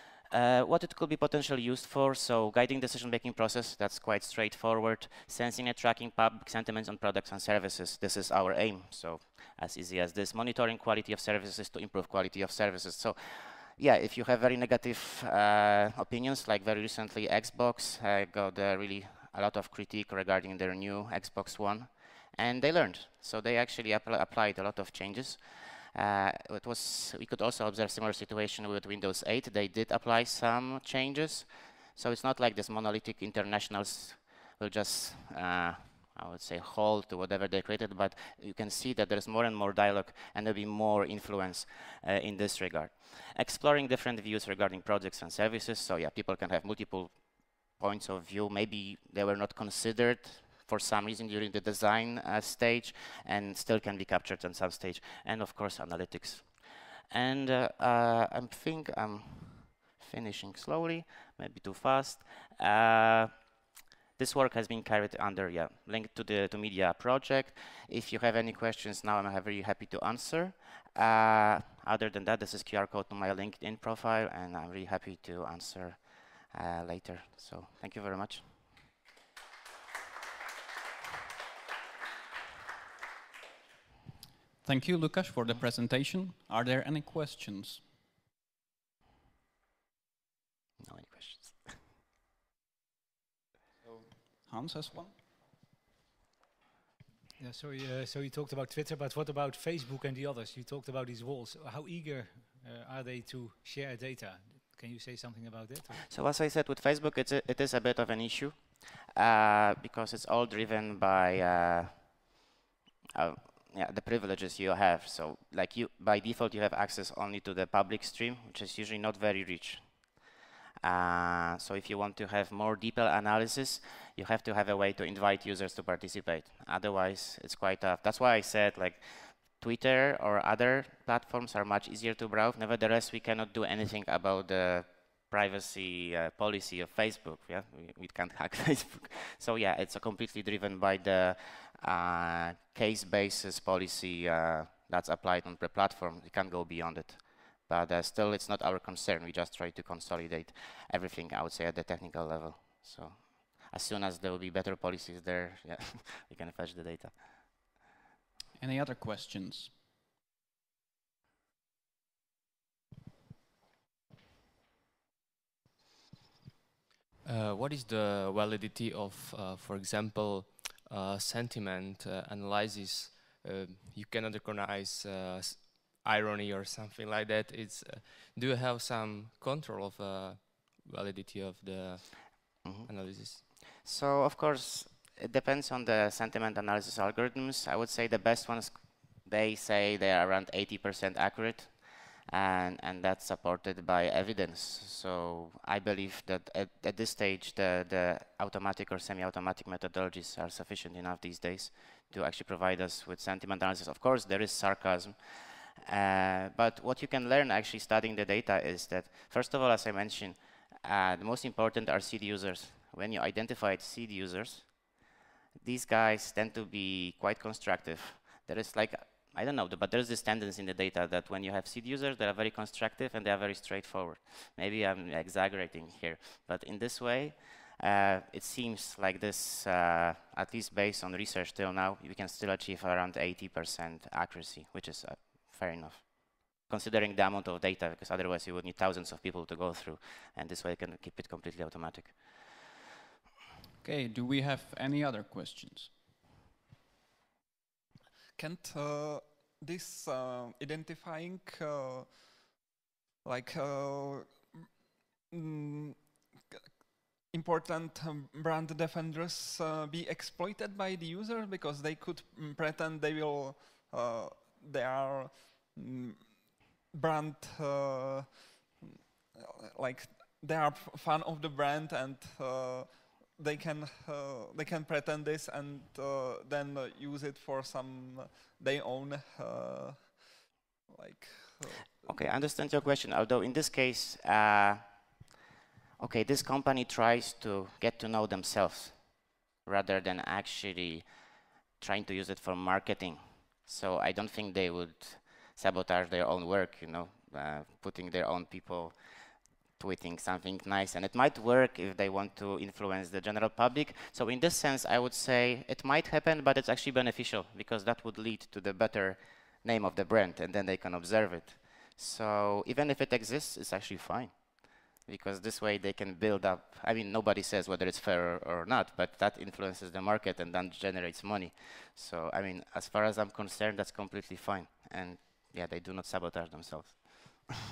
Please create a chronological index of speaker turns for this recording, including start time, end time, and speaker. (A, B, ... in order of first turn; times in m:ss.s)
0:00.3-1:03.5 A
1:04.2-1:18.6 A
1:24.6-1:27.8 B
1:30.8-1:31.8 A
1:34.4-1:35.1 B
1:37.4-1:46.1 C
1:45.9-1:52.4 A
1:53.1-2:00.2 A
2:00.8-2:37.3 A
2:38.6-2:39.8 B
2:47.2-3:03.4 D
3:02.6-3:02.9 A
3:03.8-3:35.0 A
3:35.6-4:02.5 A
4:03.8-4:05.9 B
4:08.4-4:12.6 E
4:13.2-4:14.6 E
4:15.3-4:16.6 E
4:17.2-4:41.9 E
4:42.0-4:45.2 A
4:46.0-4:51.1 A
4:51.7-5:27.5 A